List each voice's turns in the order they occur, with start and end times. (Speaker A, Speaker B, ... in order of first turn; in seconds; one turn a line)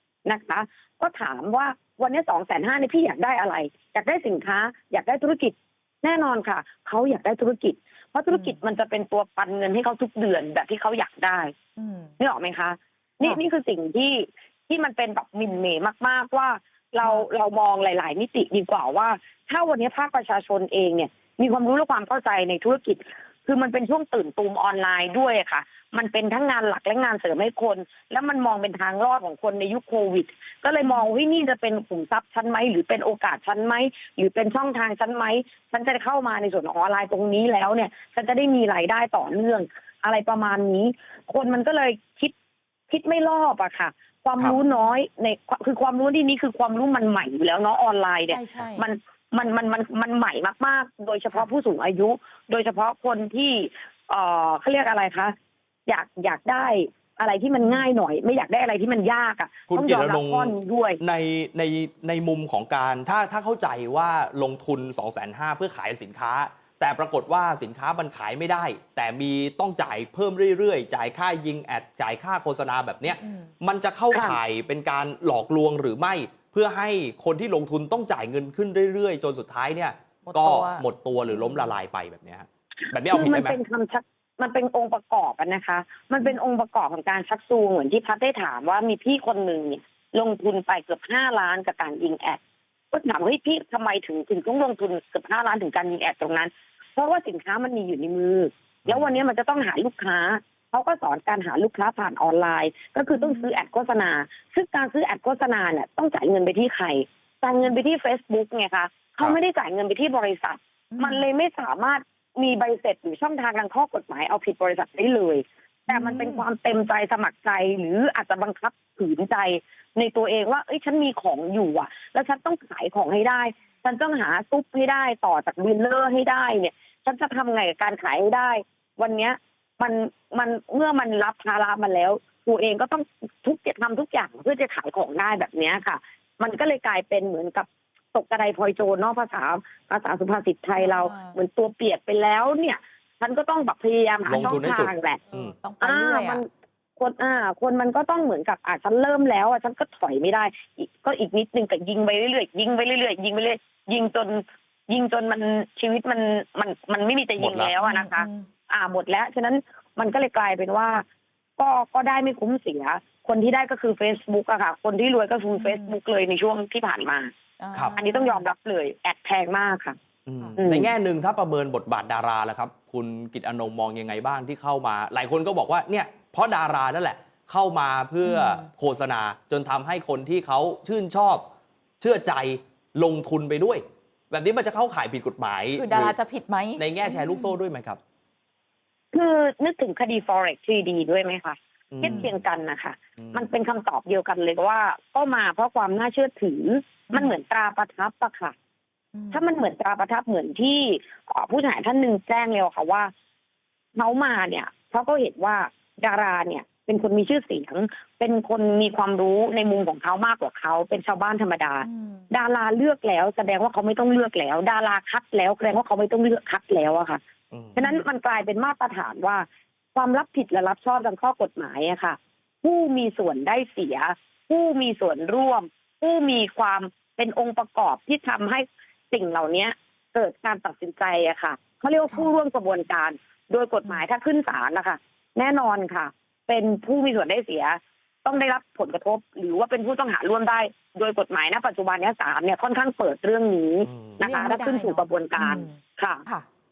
Speaker A: 0.2-11.5
Speaker B: 8.3-8.6
Speaker B: 11.8-12.1
Speaker A: 12.2-42.3
Speaker A: 42.9-55.3
Speaker B: 44.5-44.8
Speaker B: 48.3-48.9
Speaker A: 55.9-61.0
Speaker B: 57.6-57.9
Speaker C: 59.7-83.6
Speaker B: 73.2-73.5
Speaker A: 74.1-74.4
Speaker B: 80.2-81.7
Speaker A: 82.9-92.4
Speaker A: 92.9-145.2
Speaker C: 98.8-99.1
Speaker B: 103.1-103.5
Speaker B: 110.9-111.3
Speaker B: 115.9-116.5
Speaker B: 140.8-141.3
Speaker C: 144.3-145.5
Speaker B: 144.3-146.4
Speaker A: 145.8-161.0
Speaker C: 157.4-157.8
Speaker B: 157.8-158.5
Speaker A: 161.6-167.3
Speaker B: 165.5-165.9
Speaker B: 167.6-168.4
Speaker A: 167.9-170.0
Speaker C: 170.2-181.4
Speaker A: 170.6-170.9
Speaker B: 178.2-178.7
Speaker C: 182.0-186.2
Speaker B: 185.7-187.6
Speaker C: 186.8-188.0
Speaker A: 189.1-198.5
Speaker C: 191.9-192.3
Speaker B: 192.0-192.3
Speaker C: 193.2-193.5
Speaker B: 197.1-197.4
Speaker B: 199.1-199.4
Speaker A: 199.3-203.1
Speaker A: 204.0-217.2
Speaker B: 211.8-212.3
Speaker A: 217.8-219.4
Speaker B: 217.8-218.1
Speaker A: 219.9-246.2
Speaker C: 243.8-244.3
Speaker B: 244.2-246.4